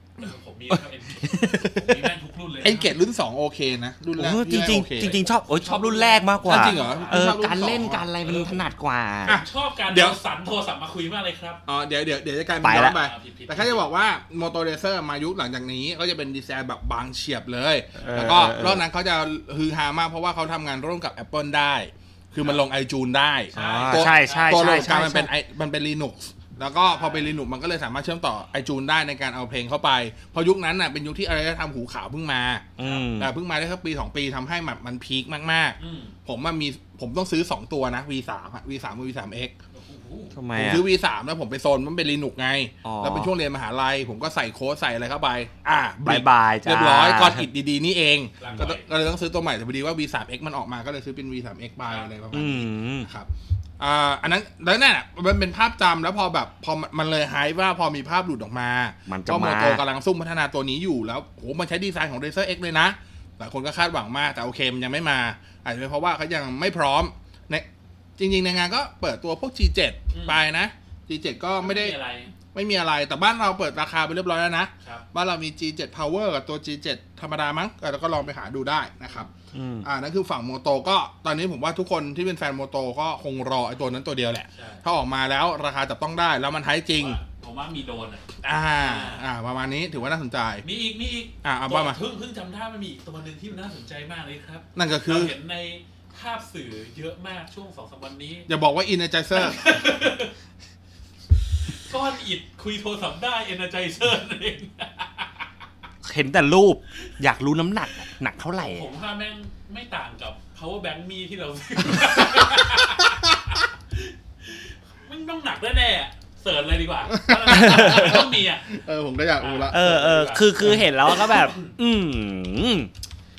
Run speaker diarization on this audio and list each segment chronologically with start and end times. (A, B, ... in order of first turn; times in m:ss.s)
0:00.2-0:03.0 A
0:00.7-0:02.0 B
0:02.6-0:05.2 C
0:04.2-0:09.4 B
0:05.1-0:08.6 A
0:06.4-0:08.1 C
0:09.2-0:11.6 A
0:09.3-0:10.2 C
0:11.6-0:39.5 C
0:12.6-0:13.0 B
0:12.8-0:13.9 A
0:18.0-0:18.8 B
0:23.5-0:24.8 A
0:23.5-0:25.3 B
0:26.8-0:27.3 A
0:32.8-0:33.3 B
0:32.8-0:33.1 A
0:35.8-0:36.2 A
0:39.7-0:40.4 A
0:40.3-0:40.8 B
0:40.5-1:07.6 C
0:42.8-0:43.3 B
0:46.0-0:47.4 B
0:48.4-0:48.8 A
0:51.8-0:52.1 A
0:52.3-0:53.1 B
0:59.1-0:59.8 B
1:08.2-1:12.0 C
1:10.1-1:10.4 A
1:11.6-1:12.3 A
1:12.5-1:19.3 C
1:19.5-1:19.9 B
1:19.8-1:27.2 C
1:24.5-1:24.8 A
1:27.0-1:29.2 A
1:28.4-1:30.6 C
1:30.6-1:38.5 A
1:31.4-1:32.0 C
1:34.7-1:35.3 C
1:38.5-1:39.6 C
1:39.3-1:40.3 A
1:41.7-1:45.5 A
1:46.0-1:48.9 B
1:48.6-1:58.7 A
1:57.1-1:59.8 C
1:57.4-1:58.2 B
1:59.4-2:01.7 A
1:59.7-2:02.9 B